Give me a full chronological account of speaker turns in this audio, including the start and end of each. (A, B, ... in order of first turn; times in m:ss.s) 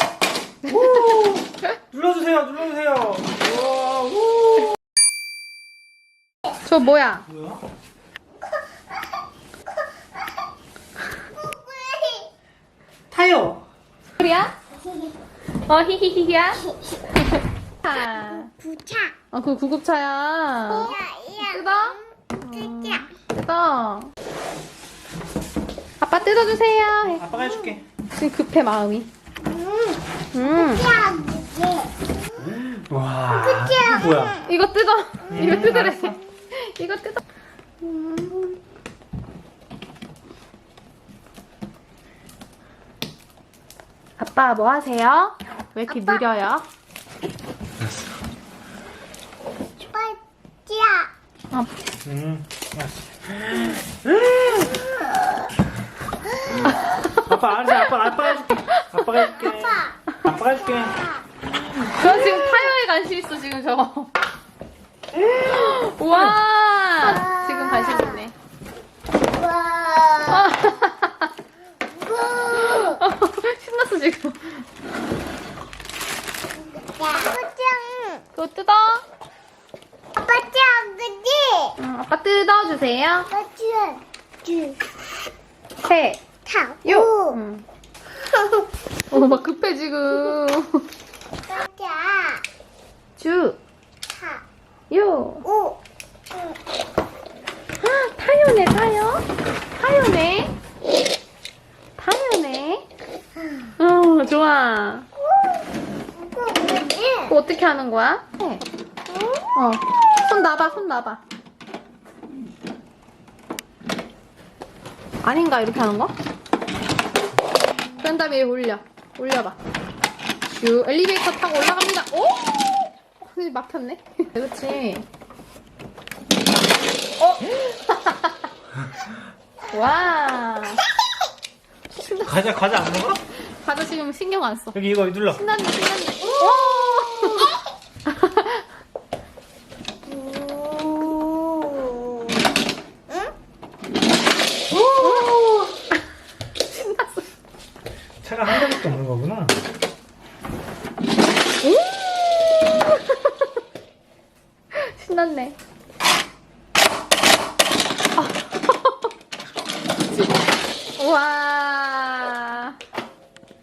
0:00.6-0:04.7 A
0:06.6-0:07.2 B
0:07.3-0:07.6 A
0:11.4-0:12.3 C
0:13.1-0:13.6 A
0:14.2-0:14.5 B
0:15.6-0:18.5 B
0:18.6-0:19.1 C
0:19.3-0:24.1 B
0:20.8-0:21.6 C
0:26.0-0:27.2 B
0:27.0-0:27.8 A
0:28.1-0:29.1 B
0:29.6-0:30.0 C
0:30.3-0:31.0 B
0:30.7-0:31.9 C
0:32.4-0:34.4 A
0:33.3-0:34.3 C
0:34.4-0:37.2 B
0:35.3-0:36.2 A
0:37.8-0:38.5 B
0:44.2-0:46.6 B
0:49.9-0:51.1 C
0:52.0-0:54.8 A
0:57.1-1:01.0 A
1:01.9-1:04.1 B
1:02.1-1:02.4 A
1:05.3-1:08.3 B
1:06.1-1:06.4 A
1:09.4-1:10.4 C
1:10.2-1:11.3 B
1:12.0-1:13.0 C
1:12.5-1:14.6 B
1:16.8-1:18.2 C
1:18.4-1:19.0 B
1:20.1-1:21.7 C
1:21.8-1:23.3 B
1:23.3-1:24.8 C
1:25.8-1:26.3 B
1:26.4-1:27.3 C
1:26.8-1:27.6 B
1:29.1-1:30.9 B
1:31.5-1:32.4 C
1:33.2-1:33.6 B
1:34.1-1:34.4 C
1:34.9-1:35.4 B
1:35.5-1:35.8 C
1:37.8-1:40.5 B
1:42.0-1:42.8 B
1:43.8-1:45.1 B
1:46.1-1:47.3 C
1:47.2-1:48.6 B
1:49.5-1:51.2 B
1:55.2-1:56.1 B
1:58.0-1:59.6 B
2:00.6-2:05.0 B
2:07.2-2:08.4 B
2:09.7-2:10.8 B
2:12.0-2:12.3 B
2:12.1-2:13.2 A
2:13.4-2:14.8 B
2:14.7-2:15.4 A
2:15.3-2:18.6 B
2:21.0-2:21.7 C
2:24.9-2:26.0 B
2:26.7-2:27.3 B
2:28.2-2:29.6 A
2:31.6-2:33.5 B
2:34.7-2:35.6 B
2:38.2-2:39.1 B
2:41.0-2:42.8 B